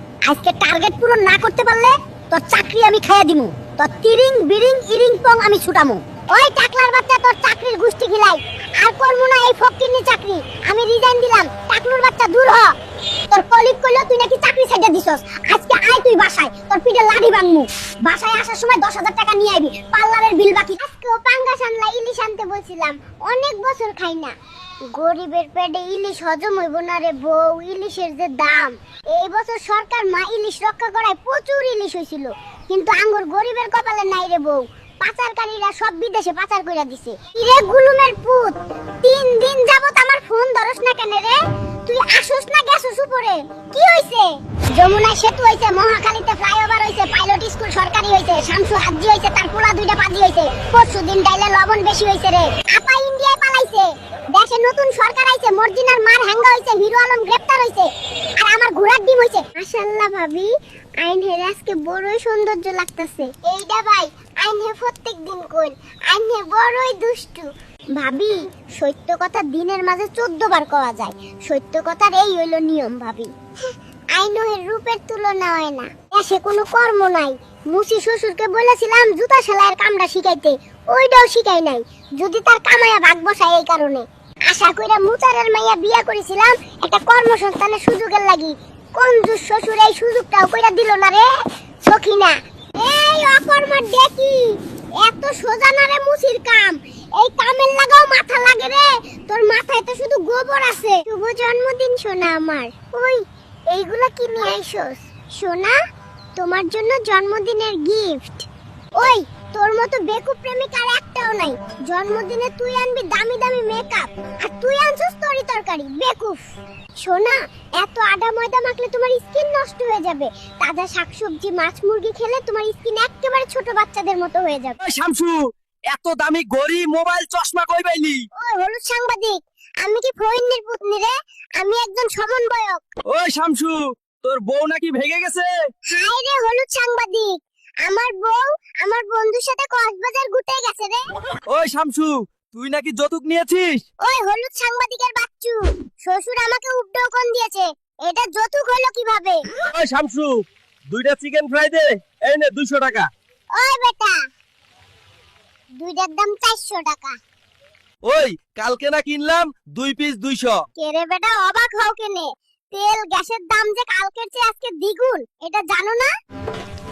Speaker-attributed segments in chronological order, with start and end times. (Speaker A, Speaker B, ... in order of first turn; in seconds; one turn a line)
Speaker A: 0.2-12.7
Speaker A: 13.3-24.3
Speaker A: 24.9-73.3
Speaker A: 74.1-91.3
Speaker A: 91.9-105.8
Speaker A: 106.4-116.4
Speaker A: 117.0-124.8
Speaker B: 124.8-128.3
Speaker A: 128.4-132.8
Speaker B: 133.1-135.5
Speaker A: 135.9-141.0
Speaker B: 141.5-143.8
Speaker A: 144.0-149.4
Speaker B: 149.7-153.1
Speaker A: 153.6-154.2
Speaker A: 155.8-157.2
Speaker B: 158.1-160.6
Speaker A: 160.8-166.1